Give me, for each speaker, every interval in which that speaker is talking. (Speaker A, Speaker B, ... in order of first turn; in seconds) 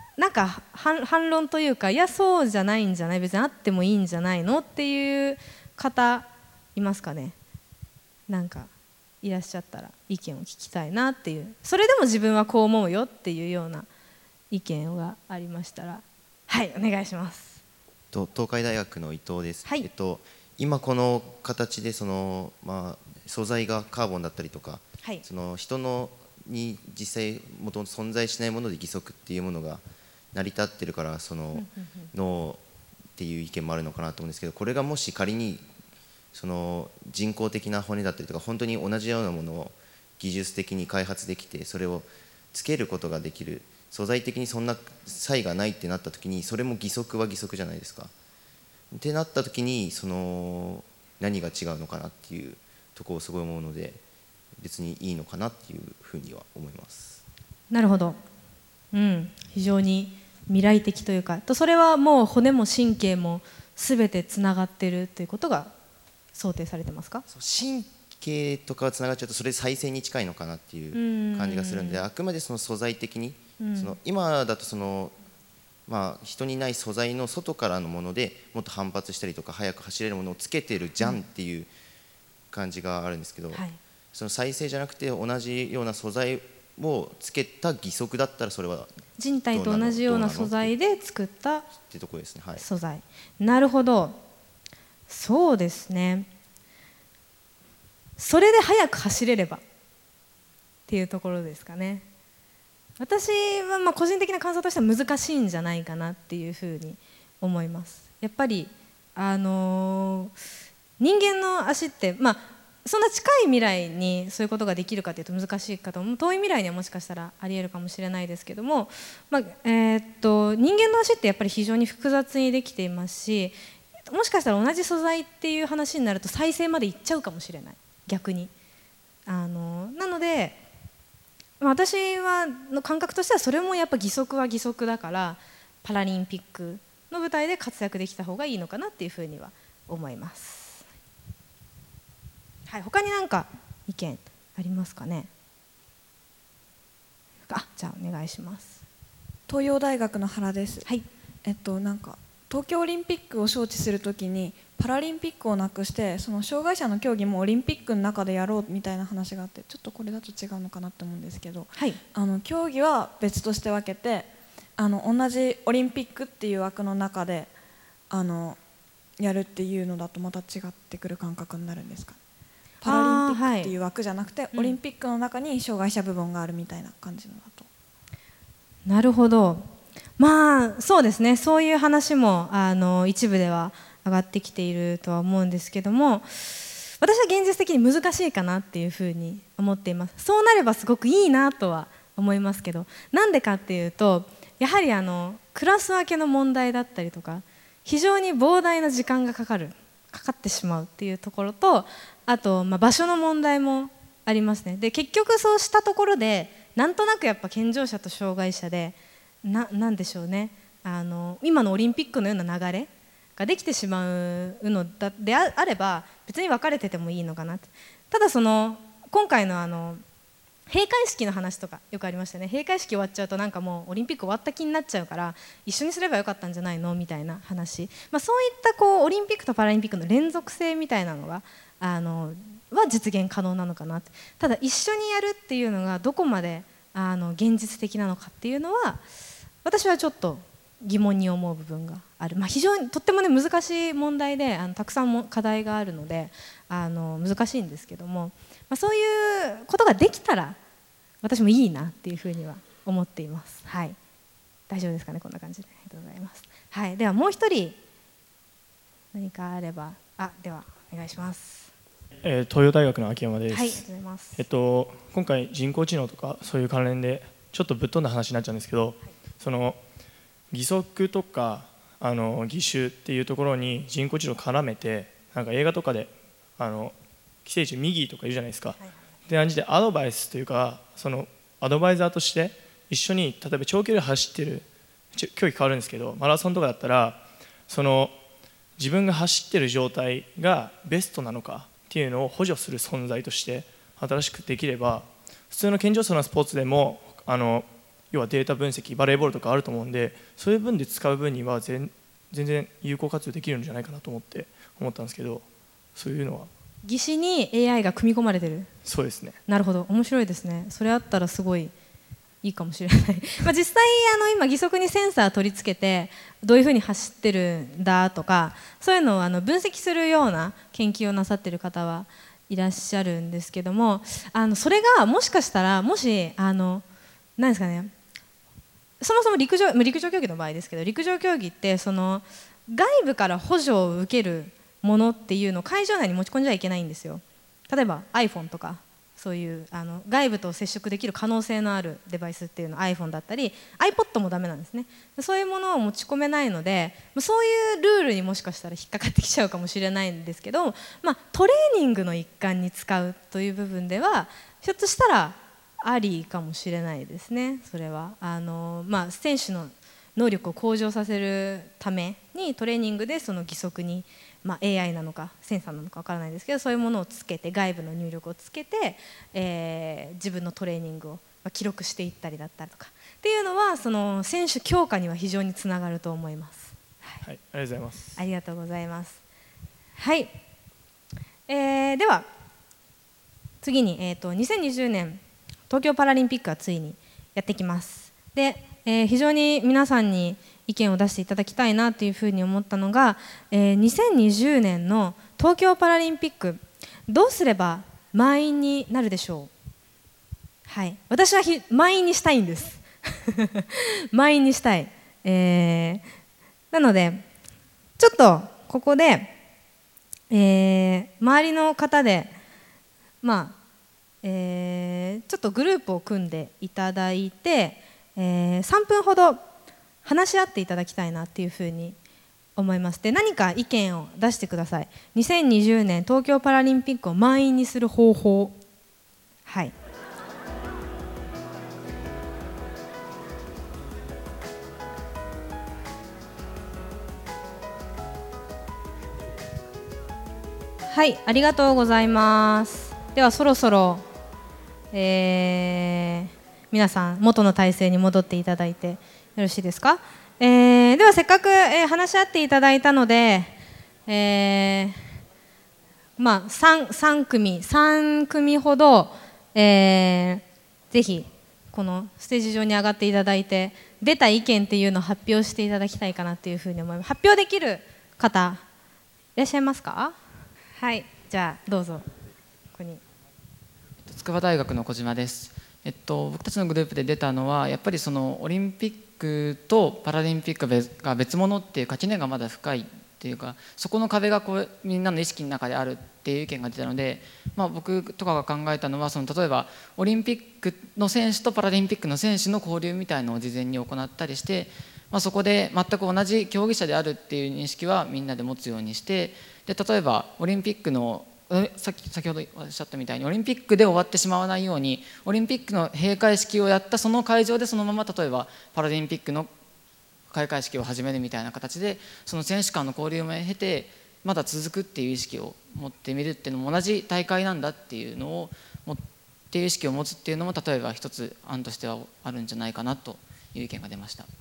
Speaker A: 0.2-7.4, 8.3-8.7, 9.2-13.9, 14.5-17.6, 31.5-32.1, 57.7-58.2, 58.9-65.7, 66.3-67.2, 70.9-72.0, 73.6-74.0, 83.5-83.8, 89.2-91.7, 92.6-94.2, 95.1-96.3, 98.2-99.6, 100.9-102.0, 103.0-110.3, 111.0-123.6, 124.1-128.5, 129.3-130.6, 131.6-140.9, 142.7-145.3, 147.5-148.8, 172.9-173.7, 174.5-174.8, 178.9-179.7, 180.2-220.0, 220.7-239.0, 239.6-250.6, 251.2-254.0, 254.7-257.8, 259.1-261.7, 263.5-264.4, 306.9-308.7, 309.5-311.7, 312.4-326.9, 327.4-327.9, 329.0-377.2, 378.2-379.2, 380.0-380.4, 381.5-382.3, 383.6-399.5, 400.7-406.1, 406.7-407.3, 408.0-409.3, 410.3-412.4, 413.2-413.6, 414.2-419.4, 420.0-422.0, 422.6-428.6, 429.5-429.7, 440.9-444.1, 444.9-453.6, 454.1-455.0, 456.2-468.6, 469.4-470.2, 470.8-472.1, 472.8-473.0
Speaker B: 18.1-32.6, 33.2-35.6, 36.3-48.1, 48.9-54.0, 54.6-57.2, 67.3-75.1, 75.9-81.7, 82.5-88.9, 89.5-90.7, 91.8-92.7
Speaker C: 149.5-150.9, 151.4-167.5, 168.1-168.6, 169.2-172.2, 172.8-177.7
Speaker D: 262.2-269.8, 270.5-288.2, 288.8-305.4, 306.0-306.5, 308.9-309.4, 377.2-378.2
Speaker E: 474.1-509.5, 510.3-524.3